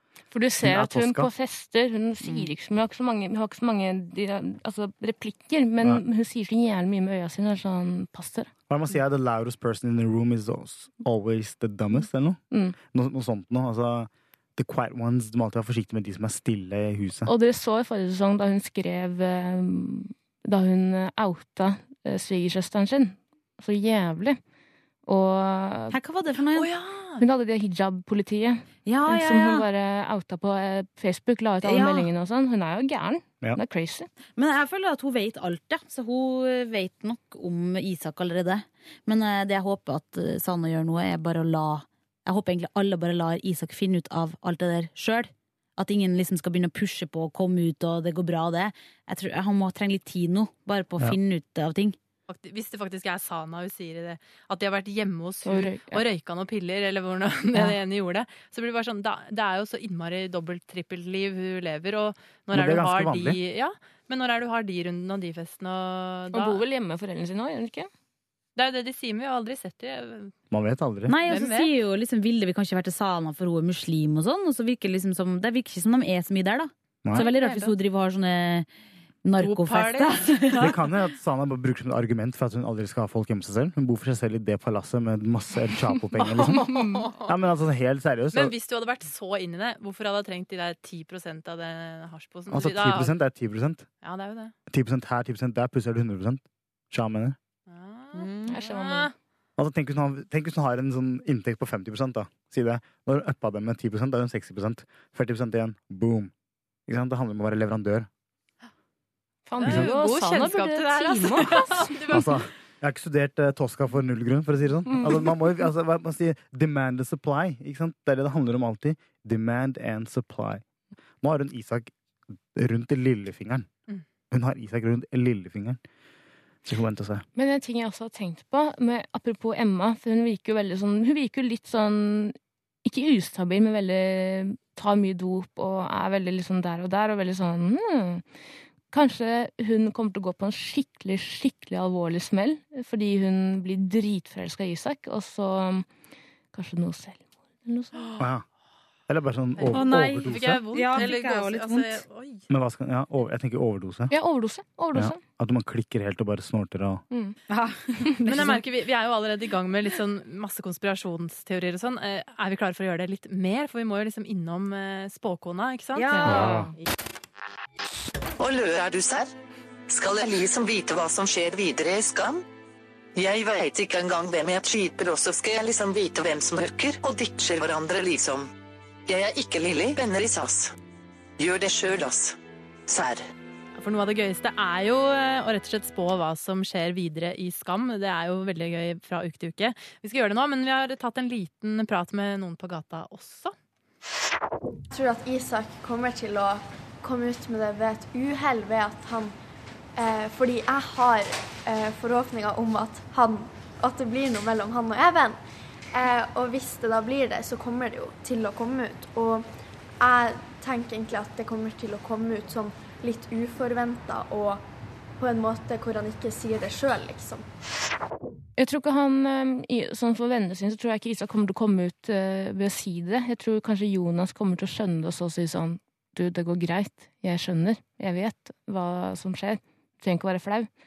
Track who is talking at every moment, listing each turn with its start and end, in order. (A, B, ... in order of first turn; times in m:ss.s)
0:00.3-0:08.5 A
0:00.6-0:01.3 B
0:08.7-0:17.3 B
0:12.5-0:12.8 A
0:17.2-0:24.4 A
0:25.0-0:26.0 A
0:25.9-0:26.7 C
0:26.5-0:27.2 D
0:27.2-0:34.1 A
0:28.8-0:29.7 C
0:31.6-0:32.1 C
0:34.4-0:52.0 C
0:52.3-1:06.6 D
0:55.4-0:56.0 A
1:02.5-1:03.4 B
1:06.3-1:07.9 A
1:08.6-1:10.3 D
1:10.5-1:11.2 B
1:11.1-1:18.7 C
1:11.2-1:11.7 D
1:17.1-1:17.7 D
1:19.2-1:20.7 C
1:19.4-1:20.7 D
1:20.6-1:26.7 B
1:26.2-1:27.3 D
1:26.5-1:27.1 A
1:27.2-1:28.5 B
1:28.3-1:33.2 D
1:32.5-1:33.8 B
1:34.0-1:34.5 D
1:34.7-1:37.4 B
1:37.7-1:39.1 D
1:38.1-1:38.6 C
1:38.5-1:39.1 A
1:39.6-1:46.3 B
1:46.9-1:48.1 B
1:49.5-1:52.0 A
1:49.6-1:52.4 D
1:52.1-2:00.6 B
2:01.2-2:01.9 B
2:02.5-2:03.7 B
2:04.3-2:05.8 B
2:06.6-2:07.2 B
2:07.4-2:18.2 A
2:18.9-2:25.9 A
2:26.5-2:28.2 A
2:28.2-2:28.4 B
2:29.1-2:30.6 B
2:29.6-2:32.4 D
2:29.7-2:32.0 C
2:32.5-2:34.1 B
2:34.1-2:35.2 A
2:34.9-2:37.0 B
2:37.1-2:37.4 A
2:37.5-2:38.6 C
2:38.3-2:46.9 D
2:46.0-2:46.7 C
2:46.1-2:46.7 A
2:46.2-2:46.7 B
2:48.4-2:49.3 E
2:49.9-2:52.4 E
2:53.2-2:58.5 E
2:59.1-3:00.7 E
3:01.4-3:02.4 E
3:02.9-3:03.2 E
3:03.8-3:13.5 D
3:14.9-3:19.3 F
3:20.0-3:25.4 F
3:25.9-3:29.5 F
3:30.0-3:34.6 F
3:35.2-3:37.5 F
3:38.6-3:50.7 A